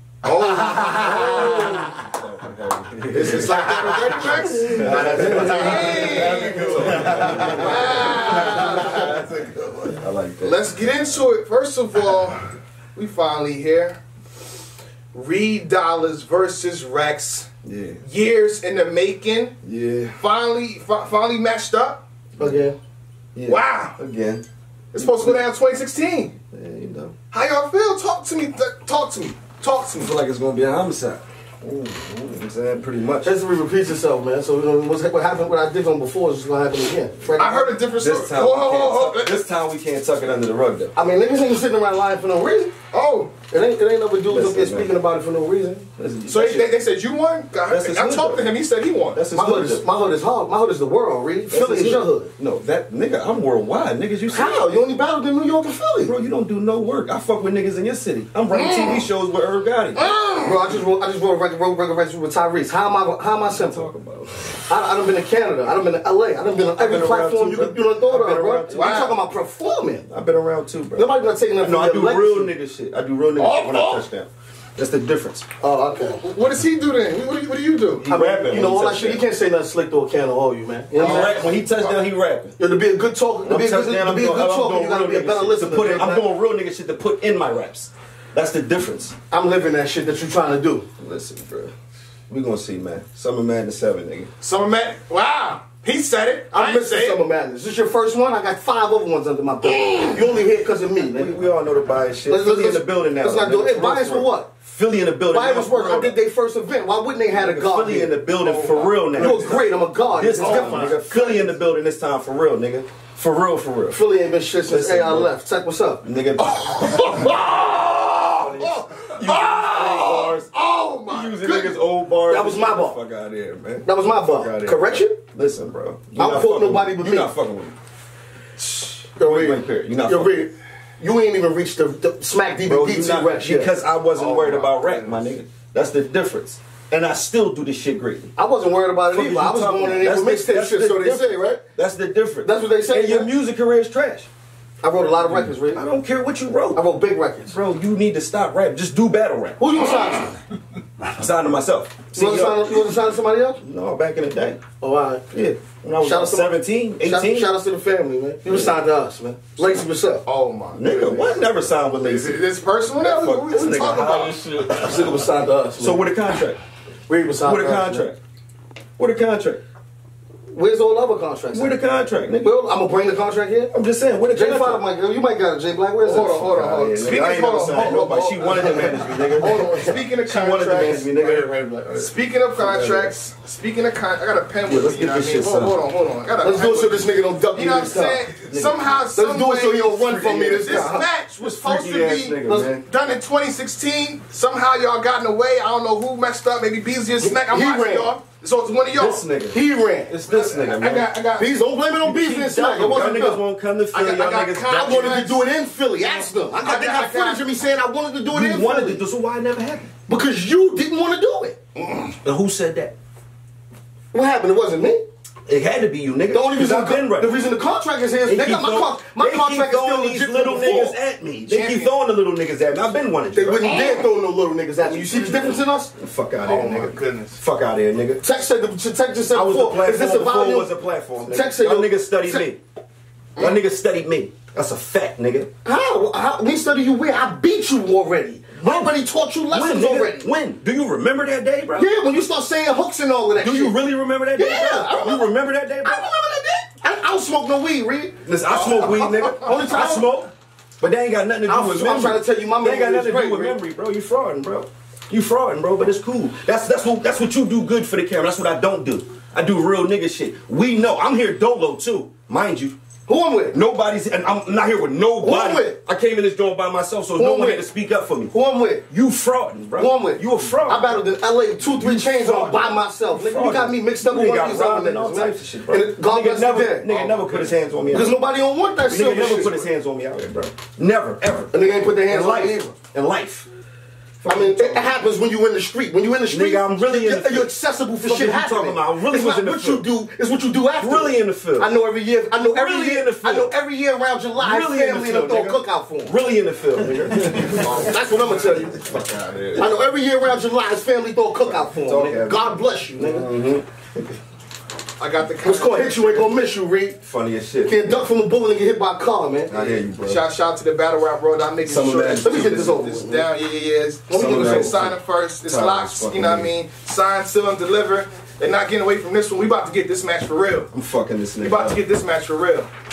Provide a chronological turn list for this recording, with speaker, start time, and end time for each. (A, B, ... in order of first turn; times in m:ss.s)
0:00.2-0:01.7 A
0:00.9-0:10.6 B
0:03.1-0:09.8 A
0:04.7-0:07.6 C
0:10.4-0:14.0 A
0:15.1-0:17.5 A
0:17.6-0:18.0 B
0:18.0-0:19.5 A
0:19.6-0:20.2 B
0:20.2-0:22.0 A
0:22.4-0:22.8 C
0:23.3-0:24.4 B
0:23.5-0:24.0 A
0:24.9-0:26.3 A
0:25.0-0:25.4 B
0:26.5-0:27.1 B
0:27.3-0:30.1 A
0:30.0-0:33.3 B
0:33.2-0:37.8 C
0:37.4-0:39.4 A
0:38.0-0:40.9 B
0:40.9-0:42.7 C
0:42.9-0:43.3 A
0:43.5-0:45.8 C
0:44.3-0:45.0 B
0:46.0-0:46.7 B
0:46.3-0:49.2 A
0:47.7-0:48.5 B
0:49.1-0:49.8 B
0:49.3-0:52.3 C
0:51.5-0:54.7 B
0:54.3-0:56.1 C
0:56.0-1:00.0 B
0:58.5-0:59.0 A
0:59.9-1:00.6 A
1:00.4-1:03.9 C
1:03.4-1:04.7 B
1:04.7-1:10.1 C
1:06.5-1:09.0 B
1:08.7-1:09.1 A
1:10.1-1:15.5 B
1:10.9-1:12.5 C
1:13.4-1:14.0 A
1:15.6-1:16.2 C
1:16.2-1:18.1 A
1:18.0-1:21.5 C
1:18.0-1:19.2 B
1:20.9-1:22.0 A
1:21.0-1:22.5 B
1:22.6-1:26.3 C
1:23.4-1:29.1 B
1:29.3-1:30.9 C
1:31.0-1:31.7 B
1:32.3-1:34.3 B
1:34.4-1:37.2 A
1:36.5-1:41.4 C
1:41.1-1:46.2 B
1:42.3-1:44.5 C
1:45.3-1:51.6 C
1:47.3-1:54.0 B
1:48.5-1:49.6 A
1:50.3-1:50.9 A
1:53.9-1:56.0 C
1:54.6-1:55.3 B
1:56.0-1:57.2 B
1:56.4-2:01.8 A
1:58.4-2:00.5 B
2:01.0-2:07.8 B
2:02.3-2:03.0 C
2:03.8-2:05.2 C
2:06.2-2:07.3 C
2:08.6-2:13.8 C
2:09.2-2:10.4 B
2:12.6-2:18.3 B
2:14.2-2:15.2 A
2:18.4-2:21.6 C
2:19.1-2:24.3 B
2:22.4-2:23.3 C
2:24.8-2:25.8 C
2:25.2-2:26.8 B
2:26.7-2:27.6 C
2:27.5-2:29.6 B
2:29.6-2:30.4 C
2:31.0-2:33.0 B
2:32.1-2:33.6 C
2:33.6-2:34.6 B
2:34.8-2:35.2 C
2:35.3-2:37.5 B
2:36.0-2:40.2 C
2:38.4-2:38.8 B
2:40.2-2:41.4 A
2:40.7-2:42.4 B
2:42.0-2:44.4 A
2:43.0-2:46.6 B
2:43.8-2:44.0 C
2:44.7-2:46.0 C
2:47.1-2:48.1 C
2:47.4-2:48.2 B
2:49.0-2:49.6 B
2:50.5-2:51.8 C
2:51.5-2:52.5 B
2:52.3-2:53.7 C
2:53.7-2:54.8 B
2:54.3-2:56.4 C
2:56.0-3:19.2 A
2:56.4-3:03.1 B
2:57.1-3:00.0 C
3:04.6-3:05.8 B
3:06.4-3:08.2 C
3:08.5-3:08.9 B
3:09.1-3:11.1 C
3:11.4-3:12.8 B
3:12.4-3:12.7 C
3:17.2-3:18.1 C
3:18.9-3:21.1 B
3:19.5-3:20.2 C
3:20.3-3:21.5 A
3:21.4-3:23.4 C
3:22.0-3:25.2 B
3:23.9-3:25.4 A
3:24.7-3:29.0 C
3:26.0-3:27.4 A
3:26.6-3:27.1 B
3:28.3-3:29.9 B
3:30.0-3:31.6 C
3:31.8-3:32.2 A
3:32.2-3:33.0 B
3:34.1-3:35.0 C
3:35.4-3:37.4 B
3:36.3-3:40.9 C
3:38.2-3:43.7 B
3:41.5-3:41.9 A
3:43.3-3:45.9 C
3:44.8-3:48.2 B
3:46.4-3:47.4 A
3:48.2-3:52.5 C
3:49.3-3:52.6 B
3:53.4-3:55.5 B
3:55.6-4:00.3 C
3:58.6-3:59.0 B
3:59.5-4:01.9 B
4:01.8-4:03.8 C
4:03.4-4:06.5 B
4:04.4-4:05.3 C
4:05.8-4:10.2 C
4:08.2-4:22.8 B
4:11.5-4:13.6 C
4:23.1-4:23.6 C
4:23.5-4:28.3 B
4:25.2-4:25.8 C
4:27.2-4:27.6 C
4:28.3-4:28.8 C
4:28.9-4:31.0 B
4:29.8-4:36.9 C
4:31.6-4:38.2 B
4:36.9-4:37.5 A
4:37.9-4:39.6 C
4:38.8-4:43.5 B
4:41.5-4:42.7 C
4:44.2-4:44.9 B
4:44.2-4:56.2 C
4:46.3-4:47.5 B
4:48.0-4:49.9 B
4:50.8-4:51.7 B
4:52.4-4:53.5 B
4:54.4-4:57.9 B
4:57.3-4:59.6 A
4:57.4-4:58.9 C
4:59.2-4:59.7 B
4:59.5-5:03.3 C
5:01.4-5:04.0 B
5:05.0-5:06.3 A
5:05.4-5:07.0 C
5:07.0-5:08.0 B
5:07.6-5:09.6 C
5:09.5-5:10.2 B
5:10.0-5:20.7 A
5:11.6-5:12.8 B
5:11.7-5:13.3 C
5:14.1-5:16.5 B
5:14.1-5:14.7 C
5:20.7-5:21.8 B
5:21.4-5:22.7 A